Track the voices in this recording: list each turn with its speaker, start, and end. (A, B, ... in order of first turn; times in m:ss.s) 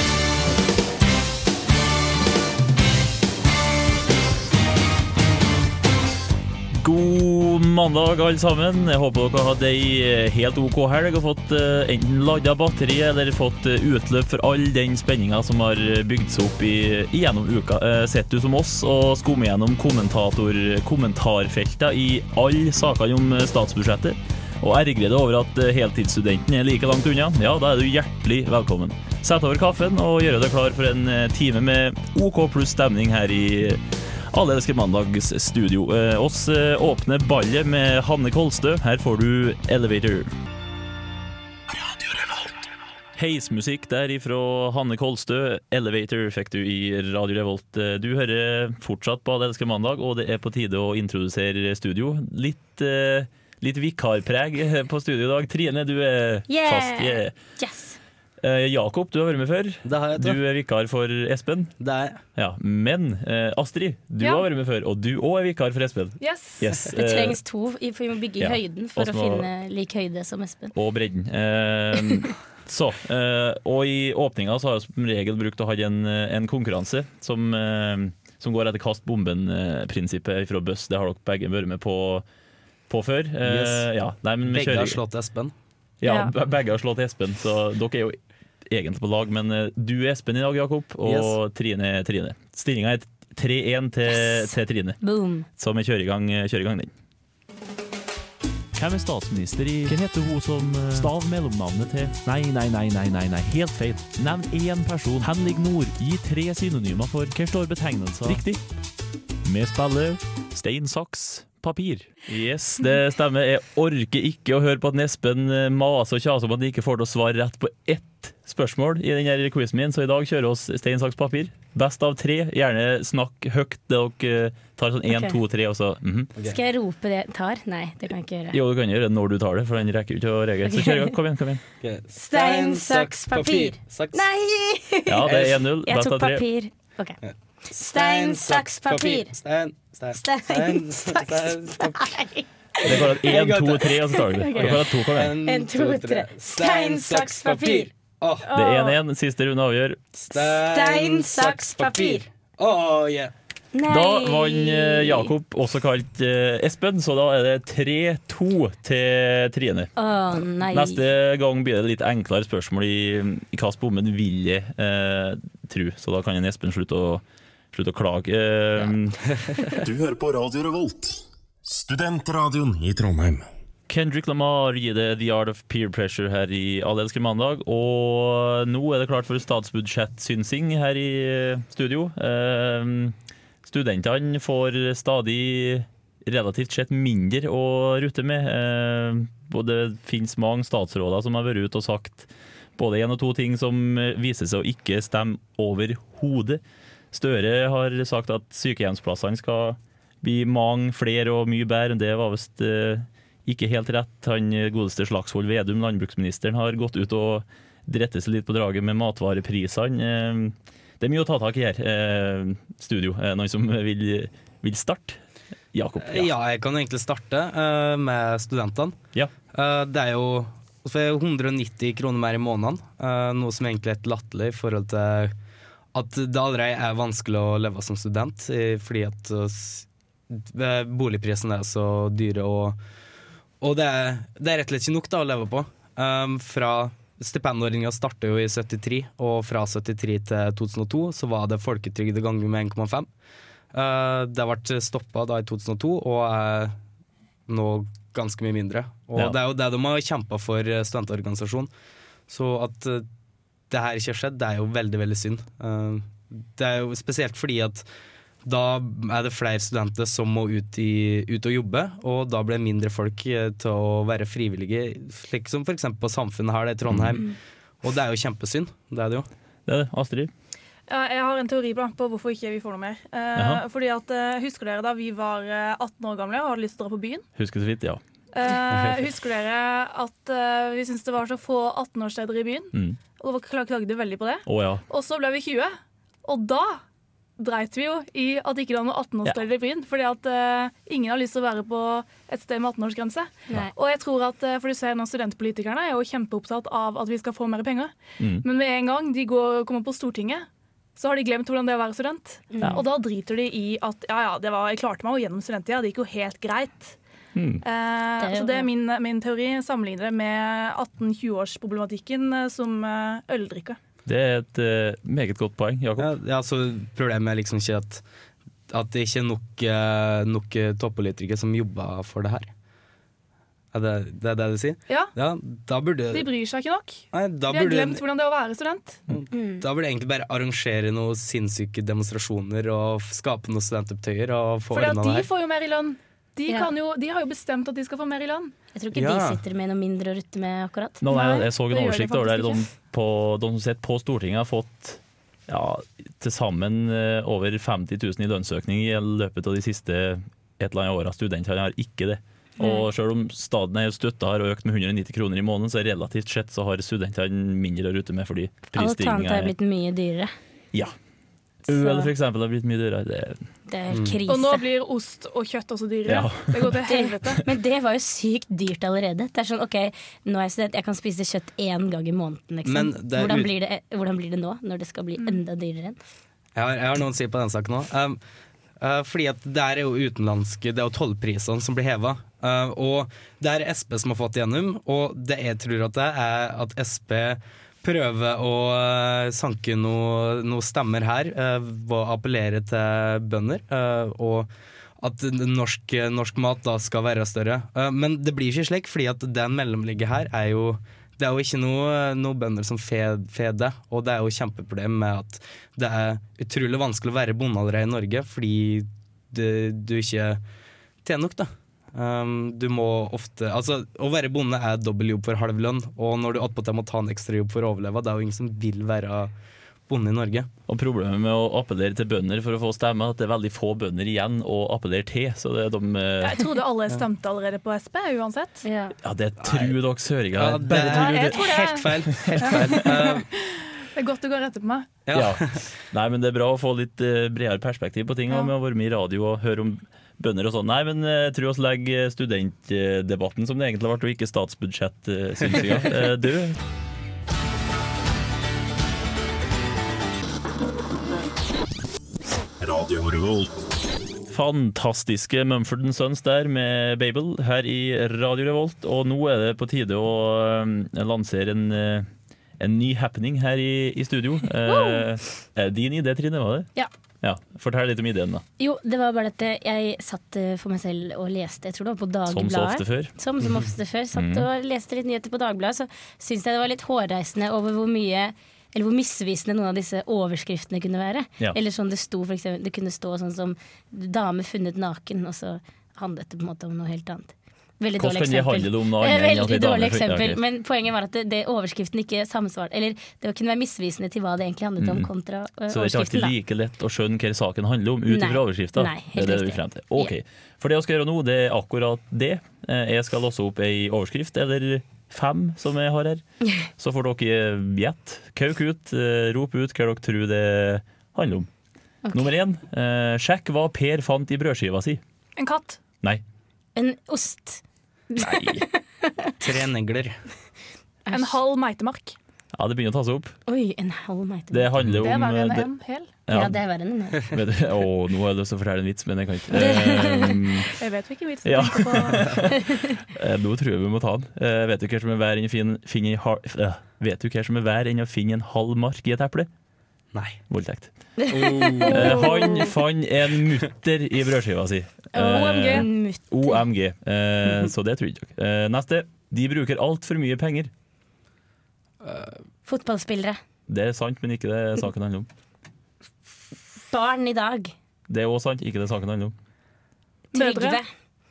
0:06.8-0:40.3 A
0:43.2-0:57.3 A
0:56.5-0:58.0 B
0:58.4-1:01.7 A
0:59.9-1:00.4 C
1:01.8-1:02.2 C
1:02.4-1:07.4 A
1:06.2-1:06.7 D
1:06.9-1:10.7 B
1:08.4-1:09.5 A
1:10.8-1:22.2 A
1:22.9-1:25.0 A
1:23.4-1:23.9 C
1:24.4-1:25.5 C
1:26.0-1:28.2 A
1:26.0-1:26.3 B
1:28.7-1:35.0 A
1:31.0-1:31.4 C
1:34.1-1:35.5 B
1:35.6-1:36.9 A
1:38.8-1:48.6 A
1:49.4-2:06.3 A
2:05.1-2:05.4 B
2:06.4-2:08.6 B
2:08.5-2:11.6 A
2:10.7-2:11.1 B
2:11.8-2:14.3 C
2:12.1-2:19.3 B
2:15.1-2:16.4 A
2:15.2-2:15.6 C
2:17.2-2:22.2 C
2:20.1-2:23.3 B
2:22.8-2:25.4 A
2:22.8-2:28.5 C
2:24.1-2:27.9 B
2:28.4-2:29.0 B
2:28.6-2:30.0 A
2:30.2-2:33.3 C
2:30.3-2:32.2 B
2:33.7-2:35.3 B
2:33.9-2:39.9 A
2:40.0-2:41.0 B
2:40.7-2:49.2 A
2:49.8-2:53.5 E
2:53.9-3:35.2 A
3:35.7-3:36.3 A
3:36.0-3:39.0 C
3:39.5-3:45.3 C
3:45.9-3:52.8 C
3:53.6-4:03.1 C
4:03.7-4:06.8 C
4:07.5-4:11.7 C
4:12.3-4:13.1 C
4:13.7-4:17.9 C
4:18.4-4:29.3 C
4:26.9-4:27.2 A
4:29.7-4:30.3 A
4:30.9-4:37.2 D
4:33.4-4:33.6 A
4:37.4-4:38.0 A
4:38.3-4:46.8 D
4:42.7-4:43.0 A
4:44.5-4:44.8 A
4:47.4-5:07.0 D
4:58.2-4:58.4 A
5:02.5-5:02.8 B
5:07.4-5:07.6 A
5:07.6-5:13.8 D
5:08.2-5:08.7 B
5:14.1-5:16.1 A
5:16.0-5:18.0 C
5:18.7-5:22.5 C
5:23.7-5:26.3 C
5:26.1-5:29.0 D
5:27.1-5:28.0 C
5:29.1-5:35.3 C
5:29.3-5:29.6 B
5:34.7-5:38.5 D
5:38.8-5:41.1 B
5:38.9-5:39.4 C
5:41.0-5:59.5 A
5:41.1-5:42.6 D
5:58.7-6:00.3 B
6:01.7-6:02.1 B
6:01.7-6:03.4 A
6:03.7-6:04.7 B
6:03.9-6:04.2 C
6:04.3-6:07.4 D
6:06.1-6:06.7 A
6:06.8-6:16.0 B
6:12.6-6:13.5 C
6:16.6-6:18.2 C
6:18.8-6:34.5 C
6:35.0-6:50.4 C
6:51.0-6:59.3 C
6:59.9-7:00.5 C
7:00.7-7:06.5 A
7:06.2-7:08.6 D
7:08.6-7:08.9 B
7:09.0-7:11.6 A
7:09.4-7:09.8 C
7:10.3-7:13.3 C
7:10.8-7:14.9 D
7:12.2-7:12.7 A
7:15.1-7:15.6 C
7:15.1-7:26.6 A
7:32.6-7:33.6 E
7:34.3-7:42.1 A
7:42.6-7:46.7 A
7:44.7-7:45.0 B
7:47.2-7:48.4 A
7:48.6-8:16.3 B
7:52.3-7:53.1 A
7:54.1-7:54.5 A
8:08.0-8:10.4 A
8:14.8-8:15.1 A
8:15.7-8:26.2 A
8:18.1-8:20.1 B
8:26.8-8:31.5 A
8:32.1-8:35.0 A
8:35.4-8:35.8 D
8:36.8-8:39.4 B
8:38.2-8:38.6 A
8:39.4-8:40.2 C
8:41.1-8:41.4 B
8:41.1-8:42.2 D
8:42.6-8:43.4 A
8:43.5-8:44.7 B
8:44.5-8:45.7 A
8:45.0-8:46.1 D
8:46.3-8:46.6 A
8:46.3-8:47.3 B
8:47.2-8:50.7 A
8:49.5-8:50.6 B
8:50.8-8:52.4 D
8:51.4-8:59.5 A
9:00.1-9:00.4 C
9:00.5-9:00.9 A
9:01.2-9:02.7 B
9:01.3-9:02.2 C
9:01.8-9:10.7 A
9:05.1-9:06.6 B
9:05.2-9:05.9 D
9:12.0-9:12.4 C
9:12.7-9:13.4 B
9:13.7-9:15.3 A
9:16.9-9:17.7 B
9:18.1-9:19.4 A
9:20.3-9:20.8 D
9:20.3-9:20.9 B